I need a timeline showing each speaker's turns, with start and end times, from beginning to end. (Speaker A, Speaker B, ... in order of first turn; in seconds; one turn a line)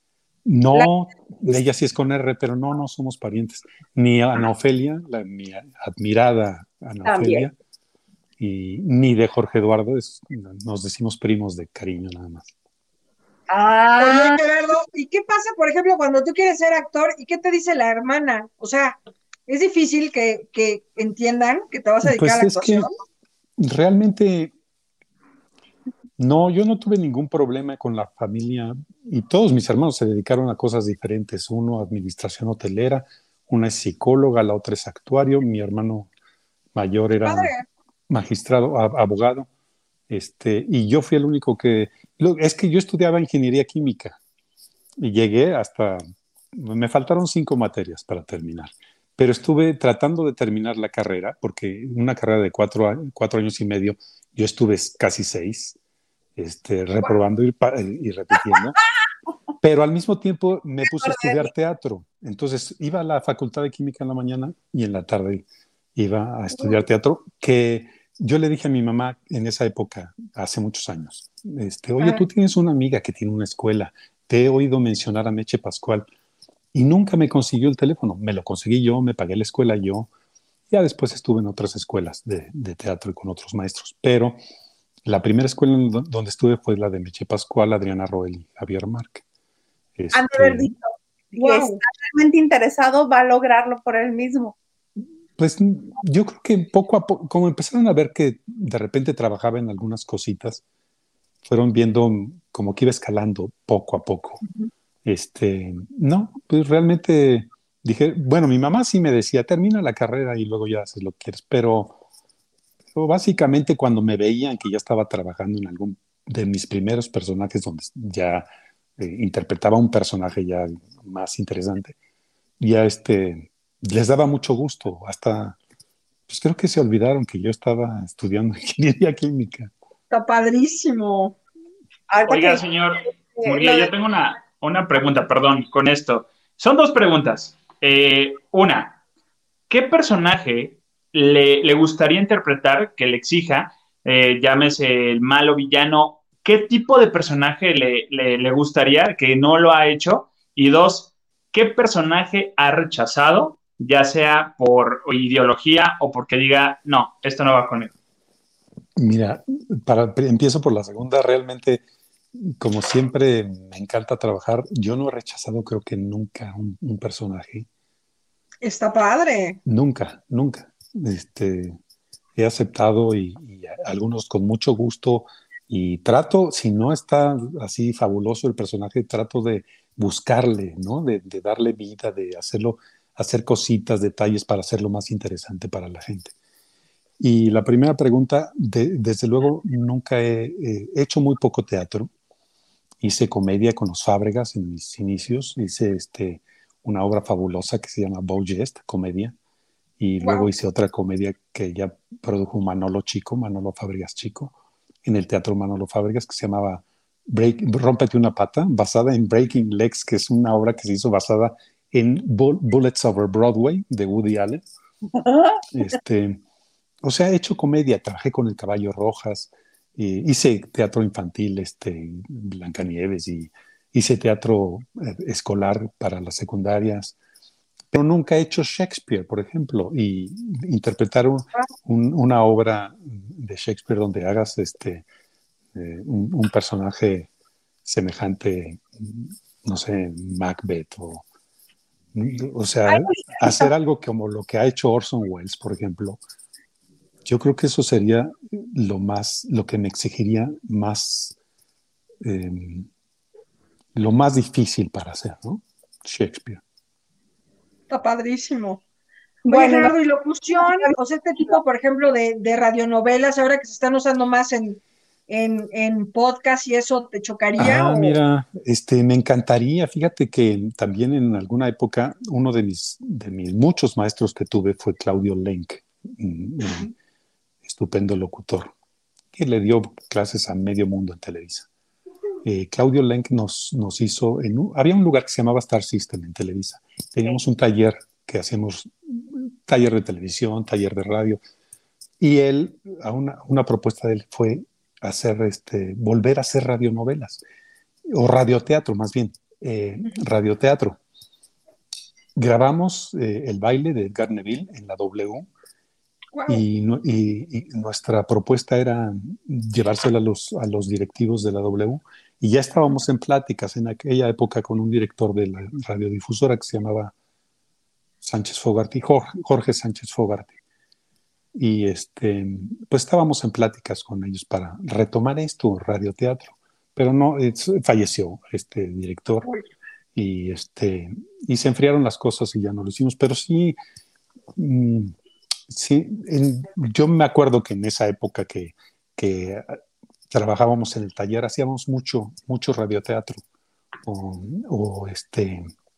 Speaker A: 0.5-7.5
Speaker B: 7.0-7.5
Speaker A: 8.4-12.5
Speaker B: 13.5-14.5
Speaker C: 14.0-22.9
Speaker A: 22.0-22.9
Speaker A: 23.6-24.5
Speaker A: 26.2-36.1
Speaker A: 36.7-37.5
Speaker C: 37.2-37.7
Speaker A: 38.1-39.5
Speaker A: 40.1-44.2
Speaker A: 45.0-46.0
Speaker A: 46.5-55.8
Speaker A: 56.4-58.8
Speaker B: 58.5-59.0
Speaker A: 59.6-76.1
Speaker B: 60.9-61.5
Speaker A: 76.7-80.1
Speaker A: 80.7-84.4
Speaker A: 85.1-89.2
Speaker A: 90.0-90.7
Speaker B: 90.1-94.6
Speaker C: 91.4-91.8
Speaker A: 95.4-100.6
Speaker A: 101.4-104.4
Speaker A: 105.0-112.0
Speaker A: 112.9-118.5
Speaker A: 119.0-122.0
Speaker A: 122.6-125.6
Speaker A: 126.3-129.7
Speaker C: 130.1-131.4
Speaker B: 132.1-132.6
Speaker D: 132.3-139.0
Speaker B: 133.3-133.9
Speaker D: 139.7-157.9
Speaker A: 159.0-161.8
Speaker A: 162.3-167.7
Speaker C: 168.6-169.6
Speaker A: 169.7-171.8
Speaker A: 172.4-186.3
Speaker A: 187.2-192.1
Speaker A: 193.0-199.3
Speaker A: 200.0-214.6
Speaker C: 200.2-200.5
Speaker B: 215.1-215.6
Speaker A: 215.7-216.4
Speaker A: 217.0-227.2
Speaker A: 227.9-235.1
Speaker A: 235.8-237.3
Speaker A: 237.8-241.2
Speaker A: 242.1-246.2
Speaker B: 242.9-243.7
Speaker A: 247.3-251.4
Speaker A: 252.2-252.9
Speaker A: 254.0-256.6
Speaker C: 257.9-258.8
Speaker B: 259.4-259.9
Speaker C: 259.5-268.2
Speaker B: 260.6-261.6
Speaker A: 267.6-276.9
Speaker C: 276.6-276.9
Speaker A: 277.6-278.7
Speaker A: 279.3-281.7
Speaker A: 282.4-291.4
Speaker A: 292.2-297.4
Speaker A: 298.1-301.0
Speaker A: 302.4-305.5
Speaker C: 306.3-306.6
Speaker A: 306.5-317.1
Speaker A: 318.2-320.6
Speaker A: 321.6-329.5
Speaker A: 330.1-333.8
Speaker A: 334.6-335.1
Speaker A: 335.7-339.8
Speaker A: 340.3-343.4
Speaker A: 344.1-345.7